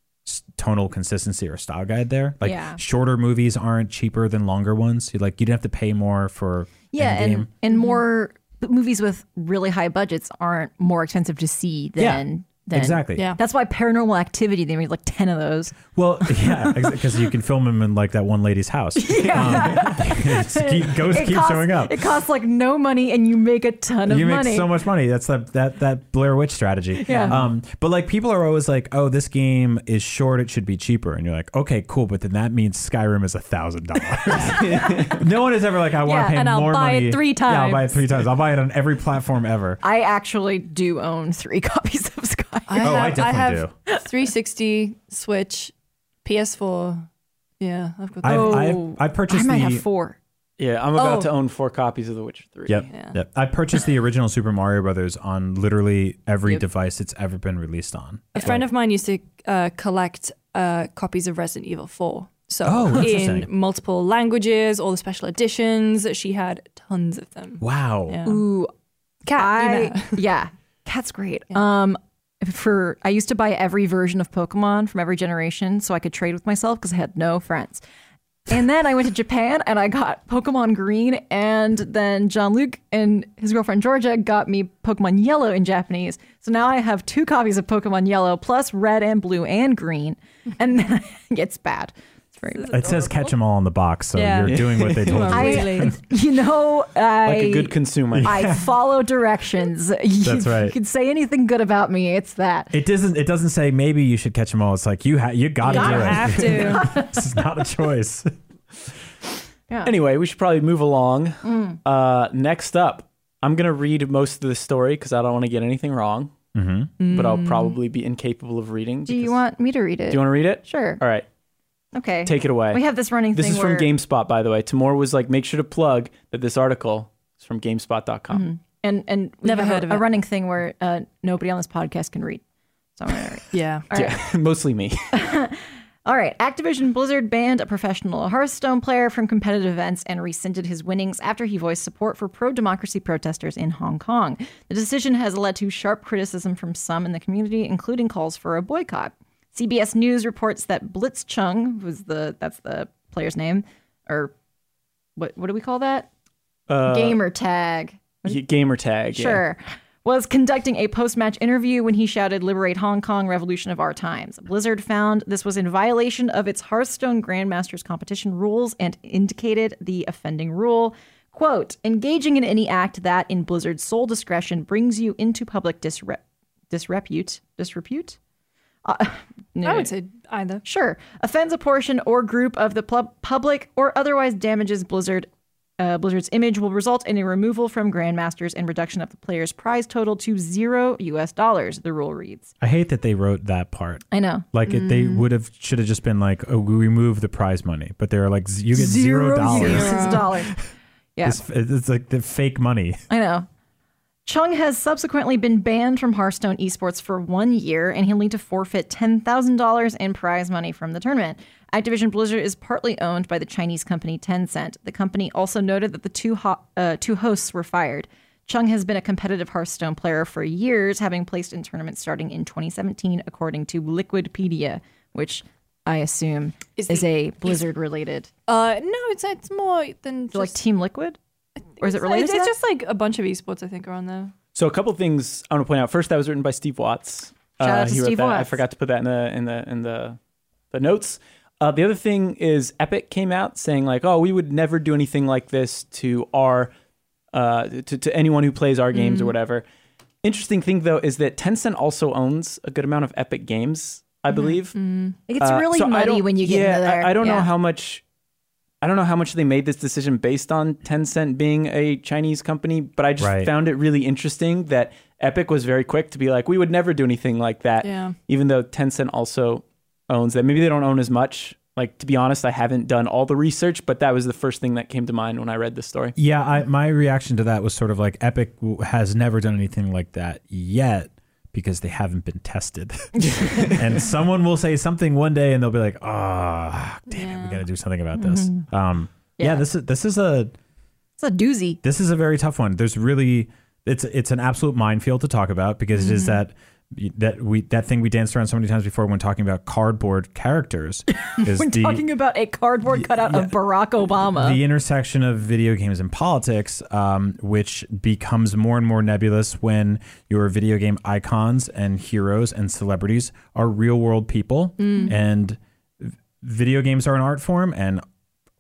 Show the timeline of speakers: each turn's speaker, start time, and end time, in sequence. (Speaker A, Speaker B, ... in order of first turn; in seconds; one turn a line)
Speaker A: 0.3-7.5
Speaker B: 2.4-2.8
Speaker B: 6.9-16.9
Speaker C: 7.7-8.0
Speaker A: 12.0-13.3
Speaker A: 15.9-22.0
Speaker B: 19.0-24.7
Speaker A: 24.1-39.8
Speaker B: 27.0-27.4
Speaker C: 34.3-34.6
Speaker B: 34.3-35.1
Speaker D: 34.4-35.3
Speaker C: 36.0-37.9
Speaker B: 36.1-36.3
Speaker B: 39.8-43.2
Speaker C: 42.7-45.7
Speaker A: 42.8-43.7
Speaker C: 46.2-47.1
Speaker C: 47.6-48.8
Speaker A: 48.2-49.8
Speaker B: 48.2-50.2
Speaker D: 50.6-52.9
Speaker C: 51.0-51.3
Speaker A: 52.7-58.7
Speaker C: 52.9-53.2
Speaker C: 58.3-68.4
Speaker A: 62.6-63.5
Speaker A: 67.6-68.2
Speaker B: 68.2-68.7
Speaker C: 69.3-70.2
Speaker B: 69.3-77.8
Speaker B: 78.5-92.8
Speaker C: 92.5-93.3
Speaker A: 92.7-96.0
Speaker C: 94.1-96.0
Speaker D: 94.5-95.5
Speaker B: 95.3-102.7
Speaker D: 97.2-98.5
Speaker A: 98.1-98.6
Speaker A: 100.2-100.8
Speaker A: 102.7-108.3
Speaker C: 105.6-107.0
Speaker B: 105.7-107.2
Speaker D: 106.2-106.7
Speaker D: 109.8-116.3
Speaker B: 111.4-111.8
Speaker A: 116.5-116.9
Speaker C: 117.0-117.8
Speaker D: 117.0-119.4
Speaker B: 119.1-121.0
Speaker D: 120.1-121.3
Speaker B: 121.9-123.9
Speaker D: 122.2-122.8
Speaker D: 123.3-128.5
Speaker B: 128.3-132.4
Speaker C: 129.4-130.1
Speaker B: 133.0-134.2
Speaker C: 133.5-133.9
Speaker D: 133.9-135.2
Speaker B: 135.1-154.3
Speaker B: 155.2-156.1
Speaker D: 156.7-157.2
Speaker B: 156.9-158.4
Speaker D: 158.2-159.4
Speaker B: 159.1-178.2
Speaker B: 178.8-179.9
Speaker C: 179.6-180.6
Speaker B: 180.6-192.5
Speaker A: 192.6-200.5
Speaker B: 194.1-194.5
Speaker C: 194.7-195.3
Speaker B: 198.7-200.6
Speaker C: 199.5-200.3
Speaker A: 201.2-203.1
Speaker B: 203.1-203.5
Speaker B: 204.3-228.3
Speaker C: 226.8-227.6
Speaker C: 228.5-230.6
Speaker B: 230.3-231.2
Speaker C: 231.8-234.3
Speaker B: 231.8-232.6
Speaker D: 234.6-240.2
Speaker B: 237.6-238.6
Speaker D: 240.7-246.7
Speaker D: 247.3-249.7
Speaker C: 248.9-249.3
Speaker D: 250.2-254.8
Speaker C: 254.3-255.2
Speaker B: 255.3-257.5
Speaker D: 255.4-258.0
Speaker D: 258.8-276.2
Speaker A: 263.2-263.5
Speaker C: 267.8-268.2
Speaker A: 276.2-290.6
Speaker B: 283.2-283.7
Speaker C: 287.1-287.6
Speaker B: 288.2-288.6
Speaker B: 289.4-289.7
Speaker B: 291.2-291.8
Speaker A: 291.8-302.0
Speaker B: 295.9-296.4
Speaker B: 301.3-304.6
Speaker A: 303.0-303.5
Speaker A: 304.3-318.0
Speaker C: 314.8-315.1